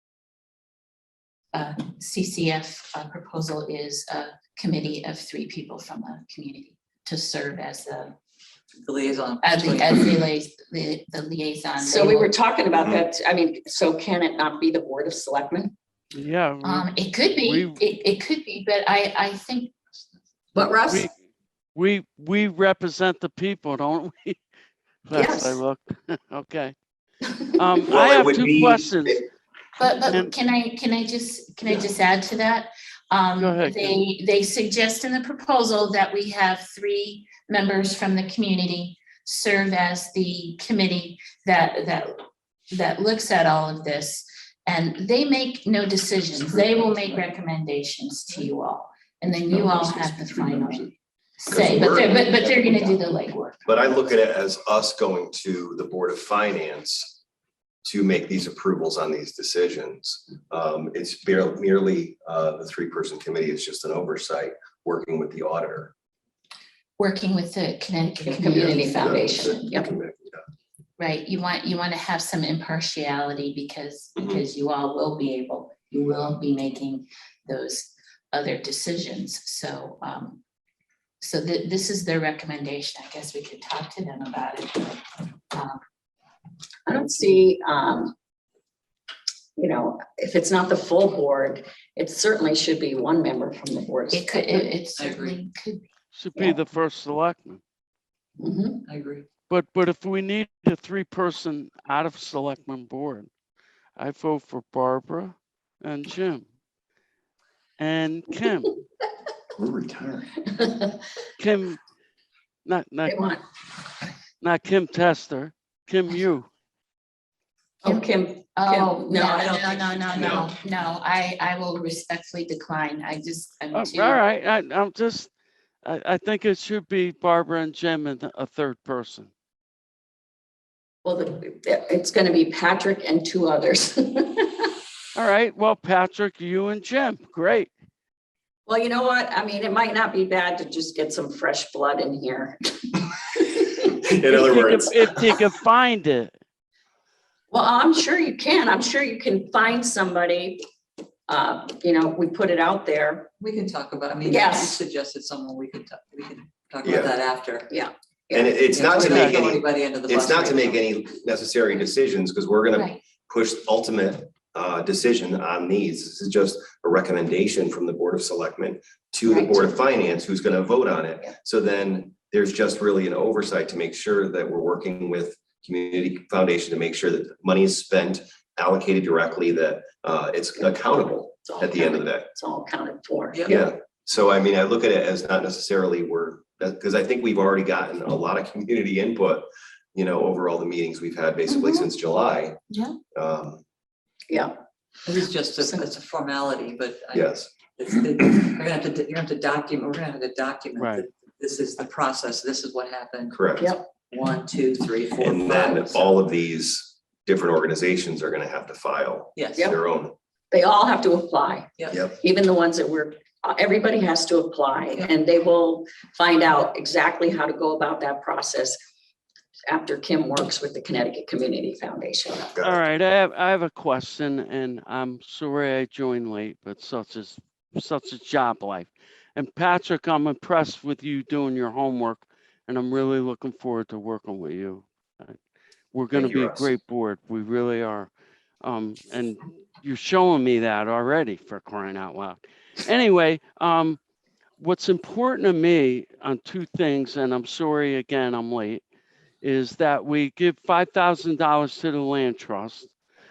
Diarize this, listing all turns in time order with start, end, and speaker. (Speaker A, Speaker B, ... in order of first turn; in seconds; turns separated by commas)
Speaker A: 1.5-8.1, Speaker B: 8.8-10.3, Speaker A: 9.4-12.3, Speaker C: 11.8-15.7, Speaker D: 16.1-17.8, Speaker A: 16.6-19.7, Speaker C: 20.5-21.1, Speaker D: 20.9-21.1, Speaker D: 21.7-24.4, Speaker D: 25.1-26.7, Speaker C: 25.1-25.6, Speaker D: 27.5-29.2, Speaker E: 27.9-29.2, Speaker A: 29.8-42.1, Speaker D: 30.1-30.3, Speaker D: 33.4-34.0, Speaker A: 42.7-53.5, Speaker F: 46.8-47.1, Speaker F: 49.5-50.9, Speaker E: 51.5-52.8, Speaker F: 52.6-53.0, Speaker E: 53.6-57.2, Speaker E: 57.8-65.9, Speaker A: 67.0-69.8, Speaker C: 68.2-69.9, Speaker E: 69.0-70.4, Speaker A: 71.0-80.4, Speaker A: 81.2-85.8, Speaker C: 86.8-88.1, Speaker C: 89.6-94.7, Speaker A: 94.1-95.9, Speaker B: 95.0-95.4, Speaker D: 96.1-97.6, Speaker C: 98.4-98.8, Speaker B: 98.8-99.3, Speaker D: 99.5-103.3, Speaker D: 104.0-106.4, Speaker D: 107.8-108.8, Speaker F: 109.5-110.4, Speaker C: 110.6-110.9, Speaker D: 111.4-111.8, Speaker D: 112.6-113.2, Speaker C: 113.0-113.4, Speaker D: 114.4-116.5, Speaker C: 117.8-120.4, Speaker A: 117.8-124.2, Speaker E: 120.1-120.5, Speaker D: 123.7-125.3, Speaker D: 125.8-129.3, Speaker C: 131.0-134.7, Speaker D: 135.1-137.7, Speaker C: 138.7-143.8, Speaker E: 143.8-145.4, Speaker D: 144.3-146.3, Speaker C: 147.5-150.6, Speaker C: 151.3-153.3, Speaker B: 153.4-157.7, Speaker C: 154.2-154.8, Speaker E: 156.8-157.1, Speaker C: 157.7-158.6, Speaker E: 158.3-182.3, Speaker B: 158.7-160.8, Speaker D: 159.0-159.4, Speaker A: 162.7-163.0, Speaker A: 169.3-169.7, Speaker C: 181.4-183.6, Speaker E: 183.4-192.6, Speaker C: 191.5-191.8, Speaker E: 193.1-193.6, Speaker C: 194.3-194.5, Speaker B: 195.1-206.1, Speaker E: 197.1-197.5, Speaker D: 200.8-201.1, Speaker E: 203.3-203.7, Speaker C: 203.6-203.8, Speaker E: 205.2-210.1, Speaker B: 209.3-209.7, Speaker C: 210.5-218.8, Speaker B: 211.8-212.0, Speaker C: 219.7-222.5, Speaker E: 222.5-222.8, Speaker D: 222.6-235.4, Speaker D: 235.9-238.1, Speaker E: 236.1-236.7, Speaker D: 238.6-244.0, Speaker D: 244.6-248.8, Speaker D: 249.4-252.9